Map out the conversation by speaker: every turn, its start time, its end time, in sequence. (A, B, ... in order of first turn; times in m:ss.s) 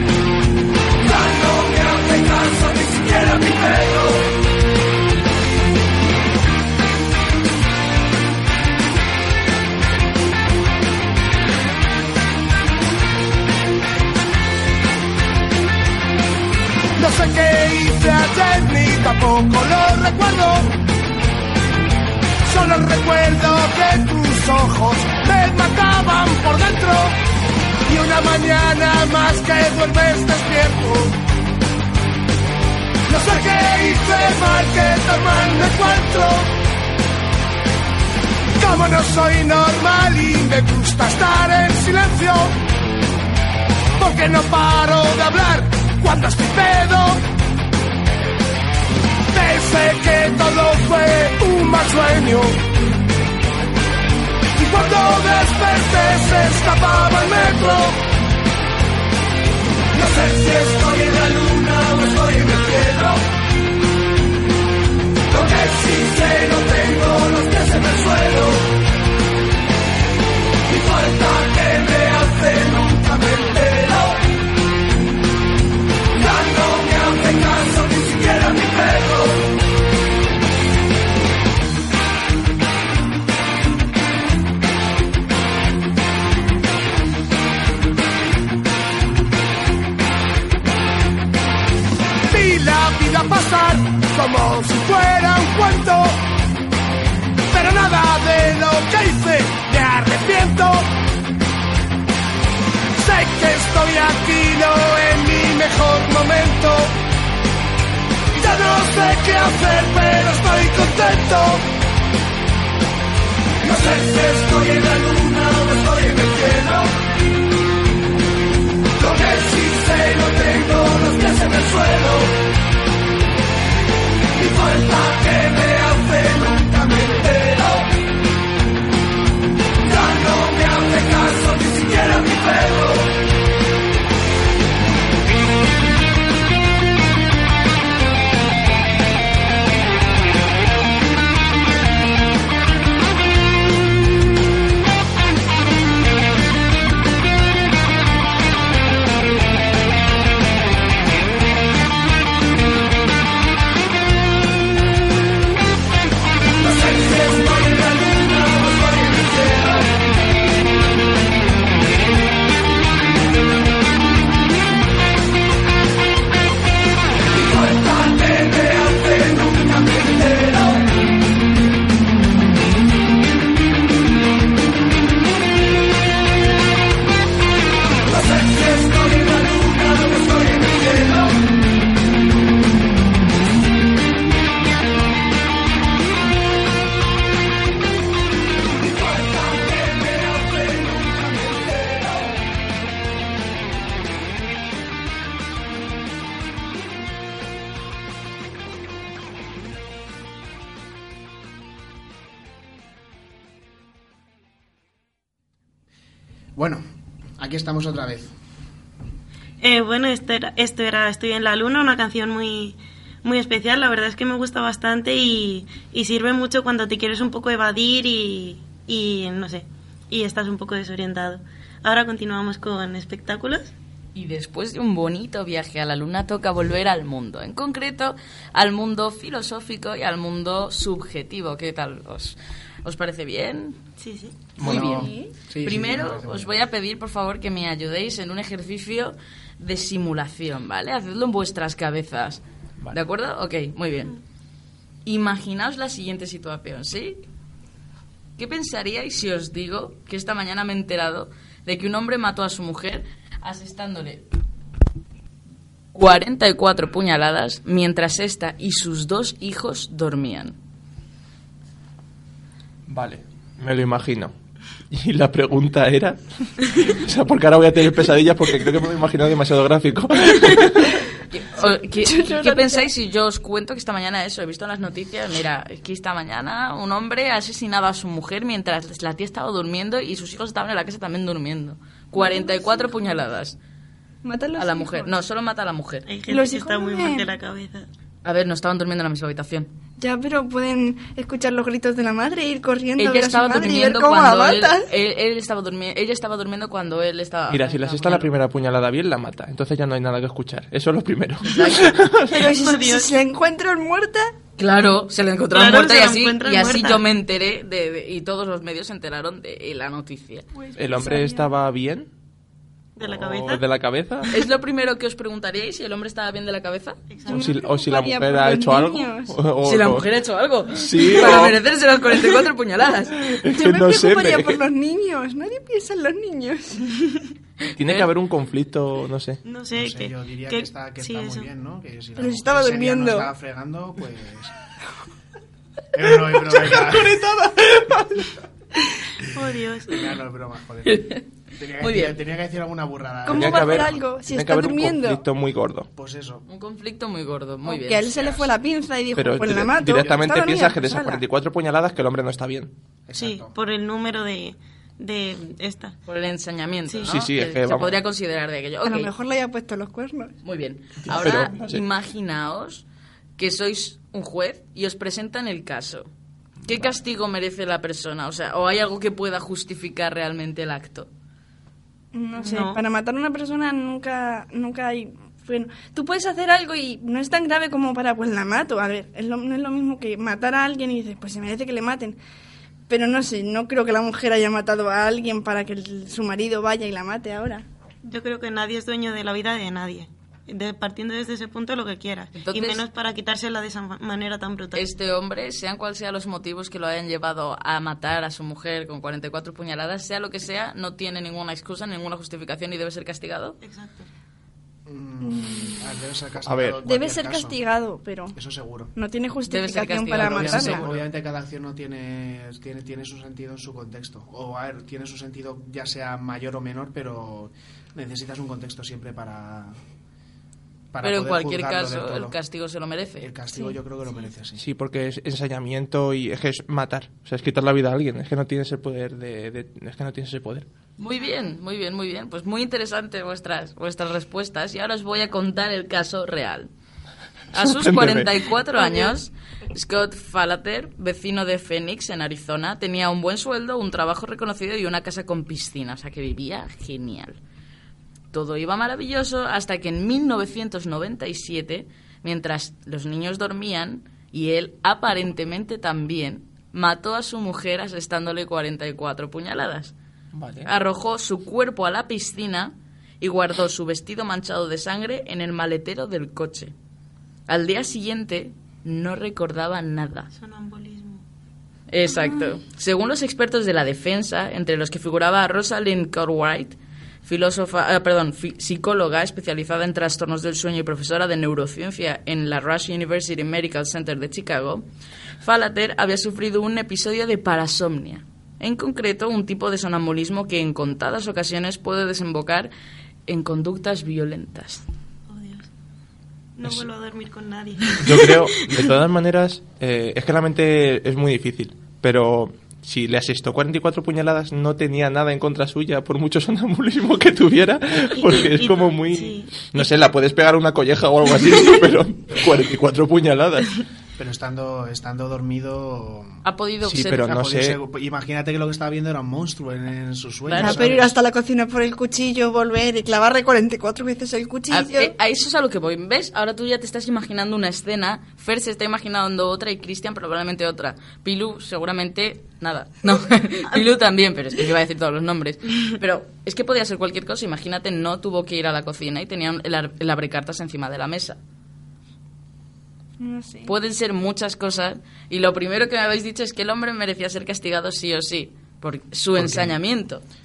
0:01.0-0:04.3 A
0:17.0-0:20.8 A
0:22.4-0:27.2 A
0:27.9-0:31.2 A
0:33.1-0:36.5 A
0:38.6-0:42.6 A
0:44.0-0:47.2 A
0:49.3-0:52.6 A
0:54.6-0:58.0 A
0:59.9-1:03.2 A
1:05.3-1:08.7 A
1:10.7-1:14.2 A
1:16.1-1:19.5 A
1:32.3-1:36.3 A
1:37.5-1:40.9 A
1:42.9-1:47.0 A
1:48.3-1:51.7 A
1:53.6-1:56.9 A
1:59.0-2:02.4 A
2:04.4-2:07.9 A
2:09.8-2:13.1 A
2:36.6-2:39.9 A
2:47.3-2:50.8 A
2:58.0-3:01.4 A
3:08.8-3:12.2 A
3:26.6-3:26.8 B
3:27.4-3:28.3 B
3:29.6-3:43.7 C
3:44.1-3:53.8 D
3:54.0-3:54.4 C
3:54.6-3:56.5 B
3:54.6-3:55.1 D
3:54.6-3:55.3 E
3:55.6-4:04.2 D
4:05.0-4:07.2 D
4:08.4-4:14.2 D
4:15.9-4:20.5 D
4:22.9-4:24.3 F
4:24.9-4:31.0 F
4:31.3-4:43.6 D
4:32.0-4:32.9 E
4:42.1-4:42.9 E
4:44.2-4:45.1 E
4:44.6-4:46.1 D
4:46.1-4:47.9 C
4:46.3-4:47.3 E
4:48.2-4:49.7 D
4:50.0-4:54.9 E
4:53.0-4:58.3 D
4:57.5-5:02.3 F
5:01.4-5:02.0 D
5:02.3-5:03.1 C
5:02.3-5:04.3 E
5:04.6-5:10.5 D
5:05.5-5:07.0 C
5:10.6-5:11.5 E
5:10.8-5:12.1 F
5:13.0-5:13.6 C
5:13.0-5:14.3 F
5:14.3-5:17.0 D
5:17.1-5:17.5 C
5:17.3-5:19.4 E
5:17.3-5:20.1 F
5:19.6-5:23.4 D
5:20.7-5:21.6 F
5:23.3-5:24.6 F
5:23.5-5:27.3 E
5:27.8-5:29.4 F
5:29.4-5:31.5 C
5:29.7-5:34.5 B
5:32.2-5:33.3 E
5:35.9-5:37.2 B
5:36.6-5:38.2 F
5:39.2-5:40.1 C
5:39.9-5:44.0 B
5:40.8-5:41.2 D
5:41.8-5:42.2 D
5:43.2-5:45.2 E
5:43.3-5:45.9 F
5:46.0-5:46.4 B
5:46.5-5:48.4 D
5:47.6-5:51.2 E
5:49.1-5:52.7 F
5:53.1-5:53.5 B
5:53.2-5:56.0 C
5:56.1-5:59.1 D
5:57.0-5:58.0 F
5:58.8-6:00.3 E
6:00.4-6:02.8 D
6:01.0-6:01.8 F
6:03.4-6:06.1 D
6:06.6-6:11.1 D
6:12.1-6:22.2 E
6:12.4-6:12.8 C
6:22.9-6:27.6 E
6:28.0-6:34.9 C
6:32.4-6:32.8 D
6:34.7-6:43.6 D
6:43.6-6:44.1 C
6:44.8-6:47.6 B
6:45.2-6:45.8 E
6:46.4-6:46.8 F
6:46.8-6:48.4 E
6:48.3-6:48.9 B
6:48.9-6:50.8 E
6:49.5-6:50.9 D
6:50.1-6:59.8 B
7:00.9-7:02.4 B
7:01.0-7:03.3 D
7:03.2-7:04.6 B
7:04.6-7:10.6 F
7:11.0-7:16.7 D
7:17.5-7:27.4 D
7:17.6-7:18.4 F
7:28.3-7:39.9 D
7:40.3-7:40.7 F
7:40.6-7:46.7 D
7:47.5-7:50.3 D
7:50.3-7:51.2 C
7:51.9-8:04.8 D
8:05.4-8:12.7 D
8:13.3-8:14.8 D
8:15.3-8:15.7 C
8:16.6-8:18.7 C
8:18.0-8:33.8 F
8:28.2-8:29.8 C
8:34.2-8:36.4 B
8:36.4-8:37.4 D
8:36.8-8:37.8 F
8:37.2-8:41.1 B
8:40.4-8:41.0 D
8:40.6-8:45.1 E
8:44.7-9:01.4 D
9:03.2-9:03.7 E
9:03.6-9:10.2 D
9:09.4-9:09.7 B